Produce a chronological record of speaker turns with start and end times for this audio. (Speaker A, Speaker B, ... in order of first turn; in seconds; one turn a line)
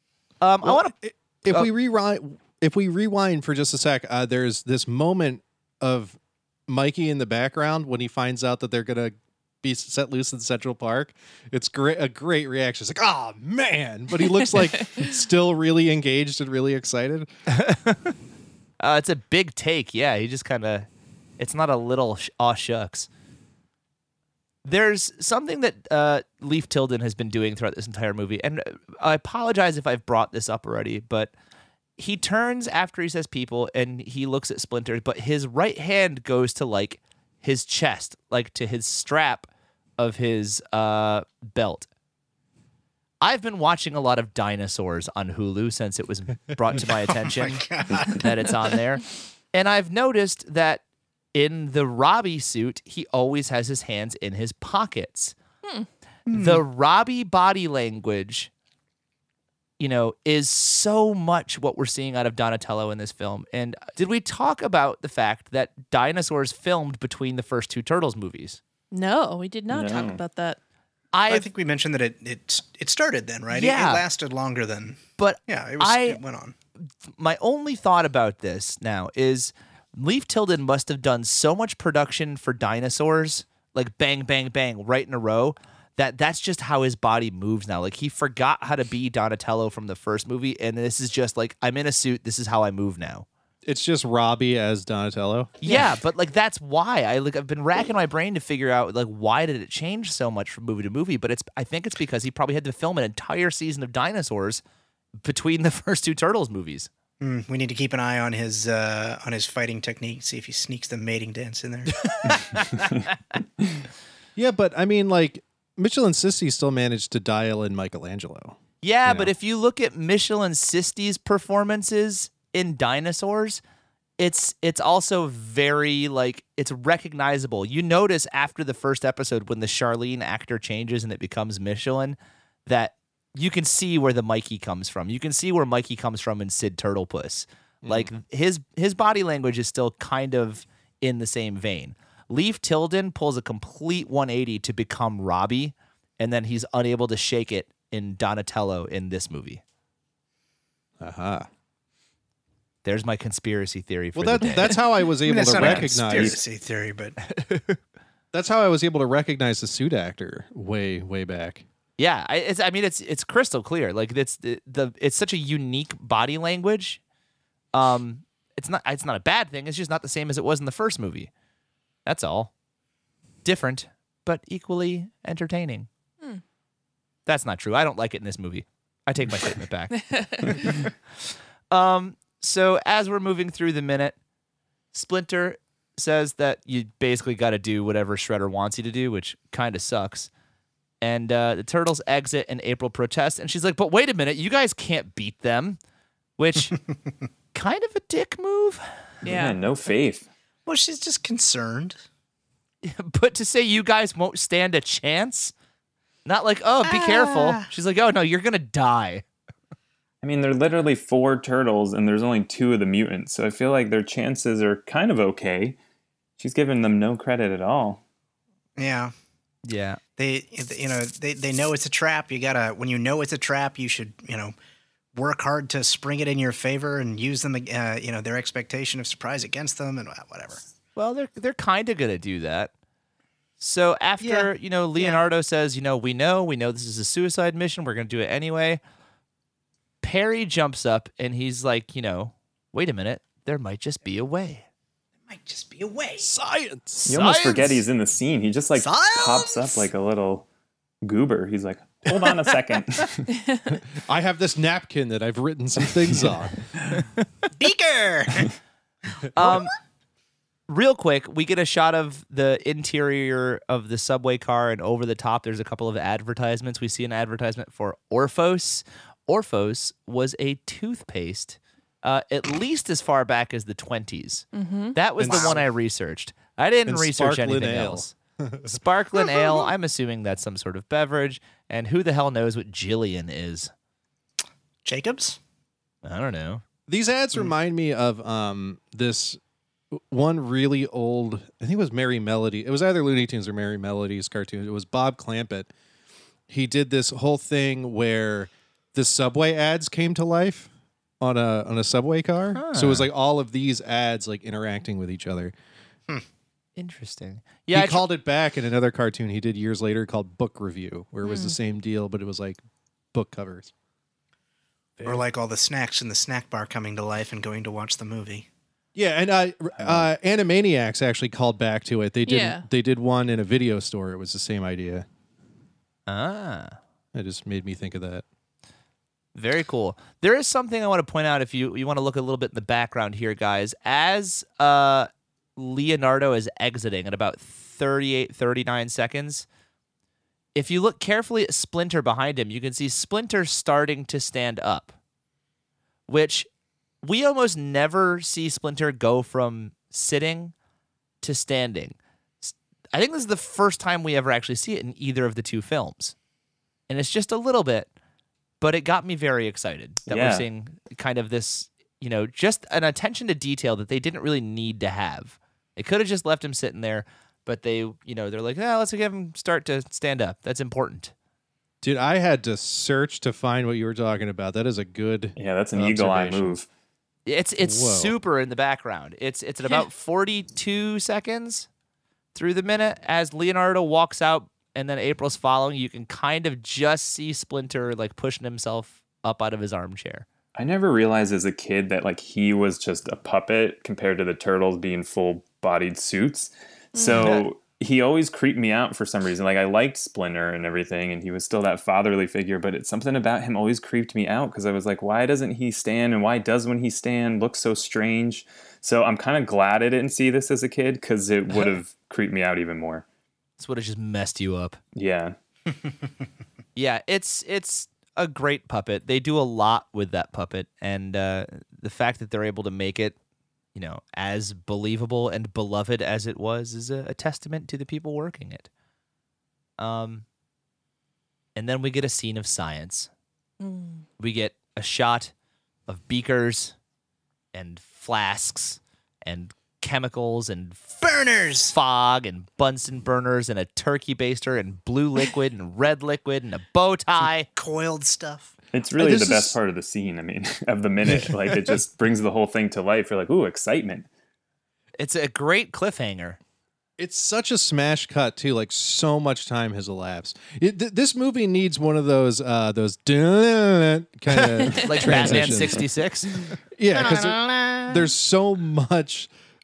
Speaker A: 0.4-0.9
Speaker B: 0.6-17.3
Speaker C: 14.4-15.1
Speaker A: 17.5-18.1
Speaker A: 18.8-20.9
Speaker A: 21.4-23.1
Speaker A: 24.6-31.3
Speaker A: 32.0-39.5
Speaker A: 40.0-41.9
Speaker A: 43.2-50.8
Speaker D: 46.8-48.7
Speaker A: 51.3-55.3
Speaker D: 56.3-56.6
Speaker A: 56.3-58.5
Speaker A: 59.8-68.6
Speaker C: 68.9-70.6
Speaker E: 69.7-70.2
Speaker A: 71.1-71.5
Speaker D: 71.3-76.5
Speaker A: 73.5-74.0
Speaker A: 75.2-76.2
Speaker A: 77.2-93.2
Speaker B: 93.6-95.7
Speaker A: 95.6-104.6
Speaker A: 105.2-106.9
Speaker D: 107.2-112.4
Speaker A: 112.0-113.3
Speaker B: 114.3-119.3
Speaker A: 118.8-123.6
Speaker A: 124.2-149.6
Speaker B: 137.8-138.1
Speaker B: 151.0-151.5
Speaker A: 152.8-154.8
Speaker B: 154.1-156.4
Speaker D: 155.2-157.2
Speaker A: 155.5-156.3
Speaker A: 157.2-157.8
Speaker B: 158.3-161.7
Speaker A: 162.0-167.0
Speaker A: 167.7-171.3
Speaker A: 172.1-172.5
Speaker A: 173.4-175.9
Speaker A: 177.2-180.8
Speaker C: 179.9-180.9
Speaker A: 181.7-184.2
Speaker A: 184.9-190.3
Speaker A: 191.0-195.8
Speaker A: 196.4-196.8
Speaker A: 197.5-198.8
Speaker C: 199.2-199.6
Speaker E: 199.2-200.3
Speaker D: 200.7-202.0
Speaker A: 202.8-205.5
Speaker A: 206.2-209.2
Speaker D: 206.8-207.7
Speaker E: 210.2-215.8
Speaker E: 216.4-218.0
Speaker D: 218.8-219.1
Speaker A: 219.6-220.0
Speaker D: 220.2-224.5
Speaker D: 225.1-230.6
Speaker A: 230.9-232.7
Speaker A: 233.6-238.8
Speaker D: 234.2-235.2
Speaker A: 240.0-244.6
Speaker D: 245.3-246.3
Speaker B: 246.2-247.1
Speaker A: 247.0-247.8
Speaker E: 247.1-250.4
Speaker D: 248.8-249.9
Speaker E: 251.0-253.3
Speaker C: 253.3-253.8
Speaker B: 253.7-256.6
Speaker A: 256.9-257.2
Speaker D: 257.6-258.5
Speaker D: 259.3-259.7
Speaker A: 259.3-259.7
Speaker A: 260.7-278.1
Speaker C: 274.5-275.0
Speaker B: 275.2-275.5
Speaker D: 275.2-275.6
Speaker B: 276.9-278.8
Speaker A: 278.6-283.7
Speaker D: 279.2-279.7
Speaker D: 284.8-285.4
Speaker A: 286.0-286.6
Speaker B: 286.9-289.4
Speaker B: 289.9-295.7
Speaker B: 296.5-300.7
Speaker B: 301.2-305.5
Speaker A: 302.5-303.1
Speaker A: 306.8-308.0
Speaker B: 307.7-312.6
Speaker C: 311.2-311.5
Speaker B: 313.1-313.7
Speaker D: 315.0-318.4
Speaker B: 318.9-325.0
Speaker C: 322.2-322.6
Speaker A: 326.1-326.8
Speaker B: 327.1-328.2
Speaker A: 329.3-339.4
Speaker A: 340.5-344.9
Speaker A: 346.1-346.5
Speaker A: 347.0-350.5
Speaker A: 351.2-356.1
Speaker A: 356.9-357.9
Speaker A: 358.6-371.1
Speaker E: 360.1-360.5
Speaker B: 371.8-376.6
Speaker E: 375.4-376.7
Speaker A: 377.2-381.7
Speaker B: 377.6-378.1
Speaker A: 382.3-390.2
Speaker E: 390.6-413.0
Speaker C: 396.9-397.4
Speaker A: 397.2-397.4
Speaker A: 413.6-414.8
Speaker E: 414.9-415.3
Speaker A: 416.8-423.1
Speaker A: 423.7-428.7
Speaker A: 429.8-430.2
Speaker A: 431.5-433.1
Speaker C: 433.6-434.0
Speaker A: 434.2-435.3
Speaker A: 435.9-436.7
Speaker A: 437.5-441.0
Speaker D: 441.0-441.8
Speaker A: 441.7-447.5
Speaker D: 447.6-448.5
Speaker E: 448.7-454.1
Speaker B: 451.0-451.8
Speaker A: 455.0-456.4
Speaker B: 457.0-469.3
Speaker C: 464.6-465.1
Speaker A: 464.6-466.4
Speaker D: 467.0-468.0